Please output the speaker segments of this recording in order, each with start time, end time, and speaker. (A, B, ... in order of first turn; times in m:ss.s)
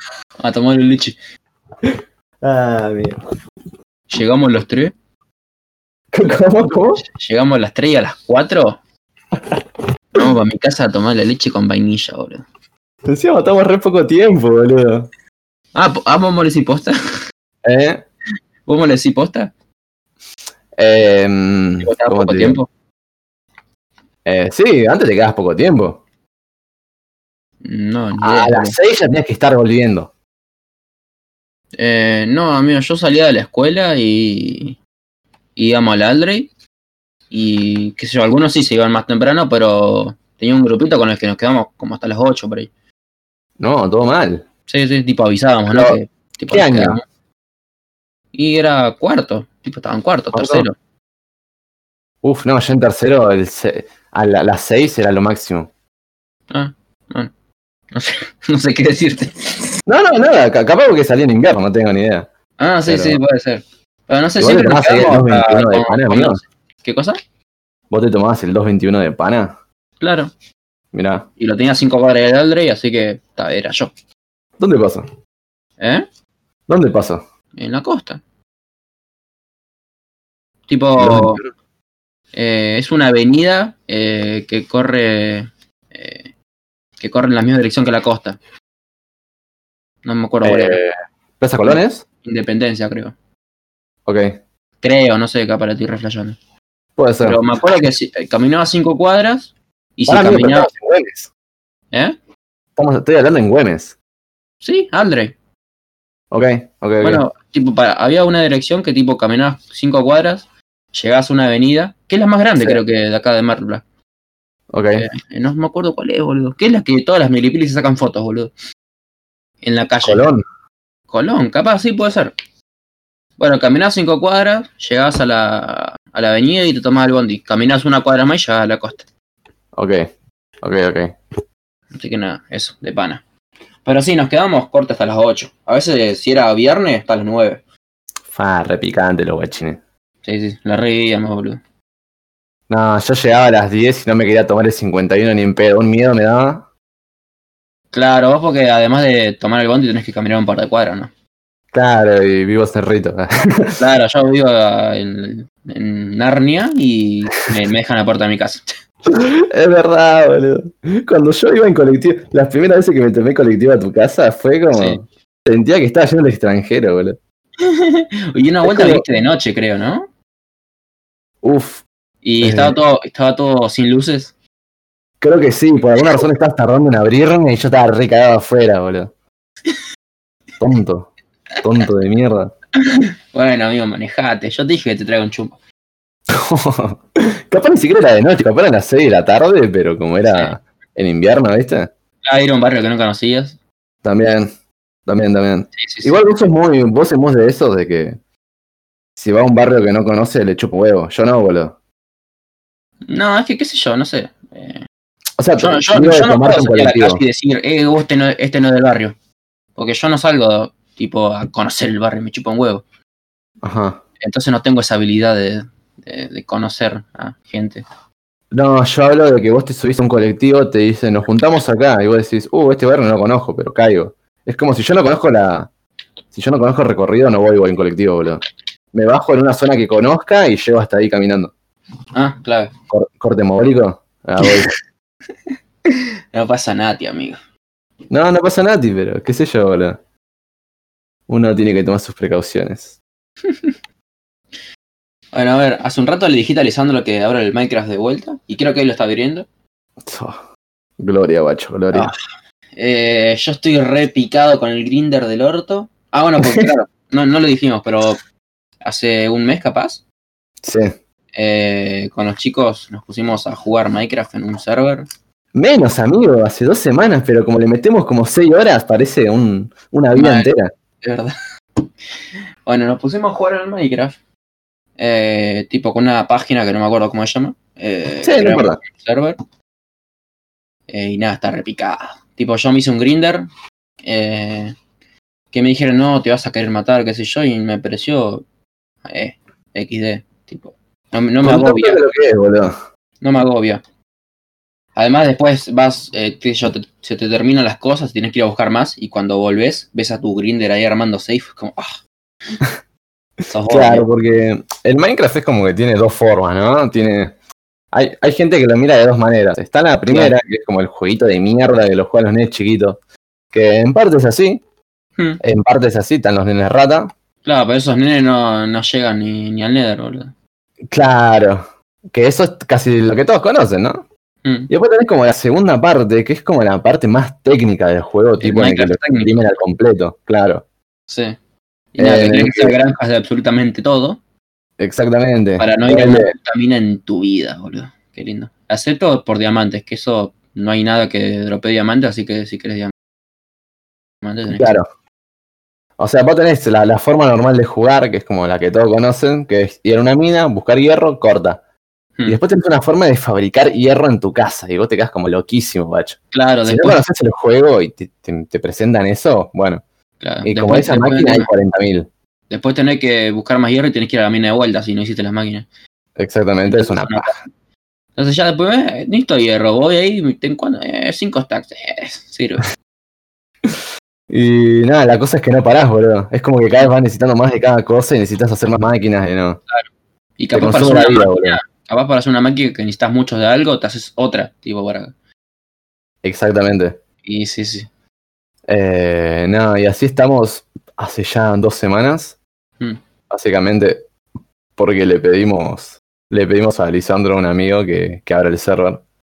0:00.4-0:01.2 A
0:02.4-0:03.2 B
0:04.1-0:04.9 A
0:06.1-0:07.0 B
0:07.0-0:08.8 A
0:10.1-0:12.4 A
0:13.1-0:15.1 B
0:15.8-0:17.0 A
0:17.6-0:18.0 B
0:18.7-0:19.5 A
0:20.8-0:22.6 B
0:21.8-0:22.7 A
0:24.2-0:26.0 B
0:27.6-0:28.8 A
0:28.2-0:30.1 B
0:31.8-0:34.8 A
0:35.6-0:36.5 A
0:37.3-0:42.7 A
0:43.6-0:44.4 B
0:44.7-0:47.0 A
0:45.7-0:46.0 B
0:46.5-0:47.0 B
0:48.3-0:50.8 A
0:50.3-0:50.7 B
0:52.2-0:55.7 B
0:56.5-0:57.3 A
0:57.9-0:59.7 A
0:59.9-1:02.3 B
1:02.6-1:07.2 A
1:02.9-1:03.2 B
1:04.4-1:06.4 B
1:07.9-1:09.6 B
1:10.0-1:10.3 A
1:10.9-1:11.3 B
1:11.4-1:13.9 A
1:14.6-1:15.1 B
1:15.8-1:16.1 A
1:16.7-1:17.2 B
1:17.6-1:18.2 A
1:20.7-1:21.4 A
1:21.0-1:21.5 B
1:22.3-1:26.3 A
1:27.0-1:28.4 A
1:30.0-1:30.8 A
1:30.4-1:32.0 B
1:31.7-1:33.1 A
1:34.1-1:34.4 B
1:34.8-1:36.4 A
1:37.0-1:37.4 B
1:37.2-1:40.7 A
1:40.1-1:41.3 B
1:42.8-1:44.0 B
1:44.6-1:45.3 A
1:46.3-1:47.2 B
1:47.0-1:53.8 A
1:54.7-1:55.1 B
1:55.0-1:58.5 A
1:59.6-2:00.3 A
2:00.0-2:00.4 B
2:01.1-2:02.4 A
2:03.4-2:09.0 A
2:09.7-2:10.1 B
2:10.6-2:11.2 B
2:11.9-2:13.2 A
2:13.8-2:17.6 A
2:18.3-2:19.8 B
2:20.2-2:21.6 A
2:22.7-2:26.6 B
2:27.9-2:31.1 A
2:31.7-2:33.8 B
2:33.8-2:38.7 A
2:39.1-2:47.2 B
2:44.7-2:45.0 A
2:47.6-2:50.1 A
2:48.6-2:49.0 B
2:51.4-2:51.8 B
2:52.2-2:54.3 A
2:52.4-2:52.8 B
2:55.2-2:59.1 B
3:00.6-3:01.1 B
3:01.6-3:02.5 B
3:02.8-3:05.6 A
3:06.3-3:11.9 B
3:12.2-3:13.6 A
3:14.0-3:14.5 B
3:15.1-3:18.2 B
3:15.8-3:16.2 A
3:19.2-3:21.8 B
3:23.1-3:24.8 A
3:25.4-3:27.2 B
3:25.6-3:29.2 A
3:29.8-3:32.8 A
3:33.6-3:34.0 B
3:34.2-3:37.8 A
3:38.5-3:45.7 B
3:46.3-3:51.5 B
3:52.1-3:52.7 A
3:52.9-3:54.7 B
3:55.9-3:57.4 A
3:58.1-4:00.0 B
4:01.3-4:03.0 B
4:05.3-4:09.5 A
4:10.0-4:10.4 B
4:11.0-4:12.1 B
4:12.8-4:18.2 A
4:16.4-4:16.7 B
4:18.8-4:20.0 A
4:20.6-4:20.9 B
4:21.4-4:25.1 A
4:25.6-4:30.7 B
4:30.2-4:31.3 A
4:32.7-4:34.2 A
4:35.0-4:39.4 A
4:38.2-4:38.8 B
4:40.9-4:43.5 A
4:44.0-4:44.8 A
4:45.5-4:48.4 A
4:49.1-4:52.0 A
4:51.4-4:52.8 B
4:53.2-4:53.8 A
4:55.0-5:02.0 A
5:03.5-5:04.1 A
5:03.7-5:07.4 B
5:07.9-5:13.0 B
5:13.5-5:14.6 B
5:15.4-5:17.1 B
5:17.4-5:20.3 A
5:20.9-5:24.0 B
5:24.4-5:24.7 A
5:24.7-5:30.6 B
5:28.4-5:29.4 A
5:31.1-5:31.4 A
5:31.9-5:34.2 A
5:32.0-5:32.7 B
5:34.8-5:36.3 B
5:35.6-5:42.9 A
5:44.2-5:44.7 A
5:44.5-5:44.9 B
5:46.0-5:51.6 B
5:52.3-5:59.8 B
5:56.3-5:57.0 A
6:00.2-6:01.5 A
6:00.4-6:02.1 B
6:02.5-6:05.7 A
6:06.2-6:07.4 B
6:06.7-6:07.4 A
6:08.2-6:12.7 A
6:14.3-6:19.6 B
6:19.7-6:25.1 A
6:20.5-6:21.6 B
6:26.2-6:27.0 B
6:27.2-6:27.9 A
6:28.7-6:32.4 B
6:33.3-6:34.1 B
6:34.8-6:39.0 B